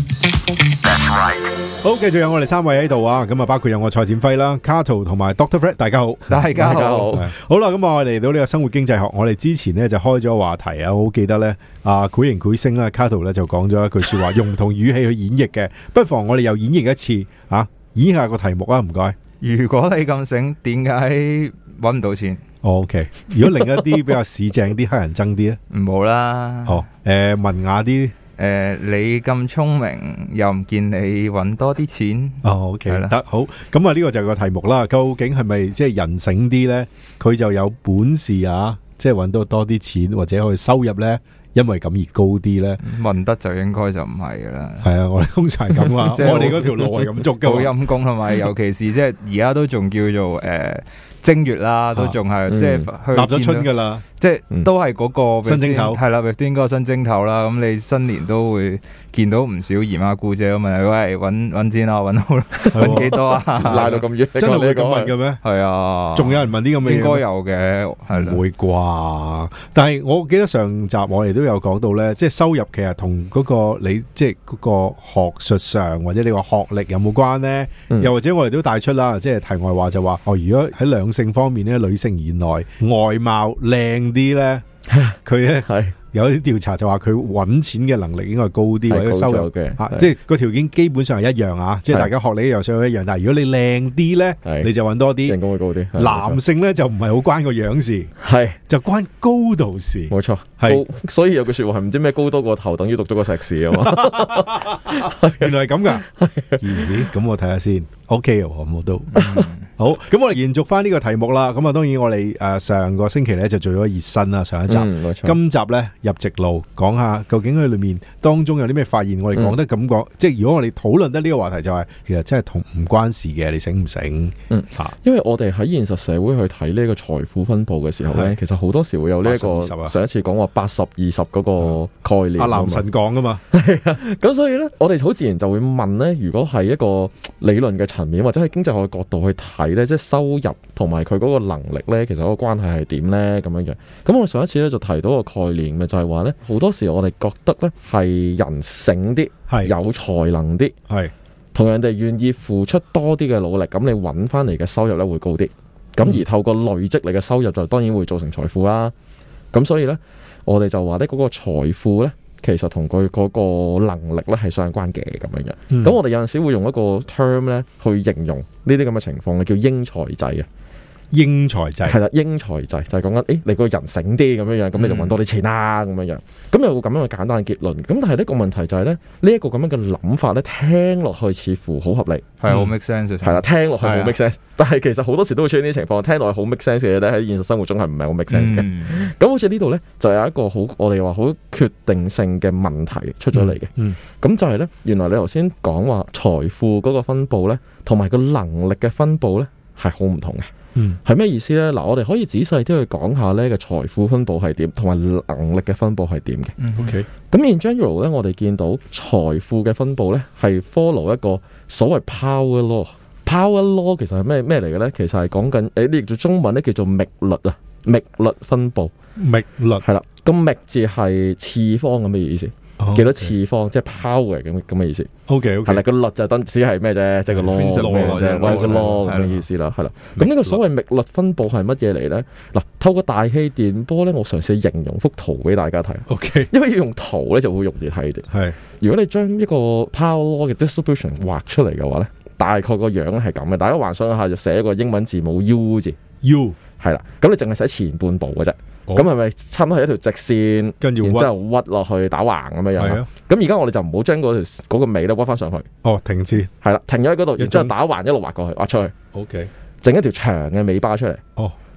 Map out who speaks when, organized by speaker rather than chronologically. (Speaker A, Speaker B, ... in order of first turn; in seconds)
Speaker A: 1.8-19.1, 22.6-25.6, 26.6-28.1, 32.4-42.8, 44.8-47.8, 53.1-54.0, 55.4-56.0, 62.7-63.8, 64.3-65.4, 66.1-67.2, 68.1-84.6, 85.2-95.4, 96.0-98.1, 98.7-100.8, 103.7-106.0, 106.6-124.9, 128.1-128.4, 129.2-129.9, 132.4-133.4, 165.7-166.0, 171.1-172.0, 193.4-194.0, 206.8-207.1, 219.2-219.8, 222.8-223.3, 225.3-225.8, 227.3-229.1, 230.2-230.6, 236.1-236.5, 238.3-238.6, 246.2-246.6, 250.8-251.3, 252.8-253.1, 255.8-256.5, 257.4-257.7, 259.1-259.5
Speaker B: 6.3-7.3, 19.4-22.4, 25.7-26.8, 28.4-33.1, 42.8-44.9, 46.0-64.0, 65.4-68.4, 109.1-109.6, 174.7-175.2, 182.4-184.2, 188.3-189.0, 206.6-206.9, 227.4-229.4
Speaker C: 6.5-7.2, 52.5-52.9, 62.7-63.0, 63.6-65.1, 84.9-85.9, 88.9-90.1, 94.4-94.7, 95.2-96.4, 98.2-98.6, 100.1-107.1, 109.2-109.5, 114.7-115.4, 124.5-132.8, 133.5-150.7, 151.5-158.9, 159.5-170.5, 171.8-182.7, 183.2-200.5, 201.0-206.5, 207.3-218.9, 219.8-225.1, 225.6-246.0, 246.8-255.7, 256.5-258.9, 259.8-261.2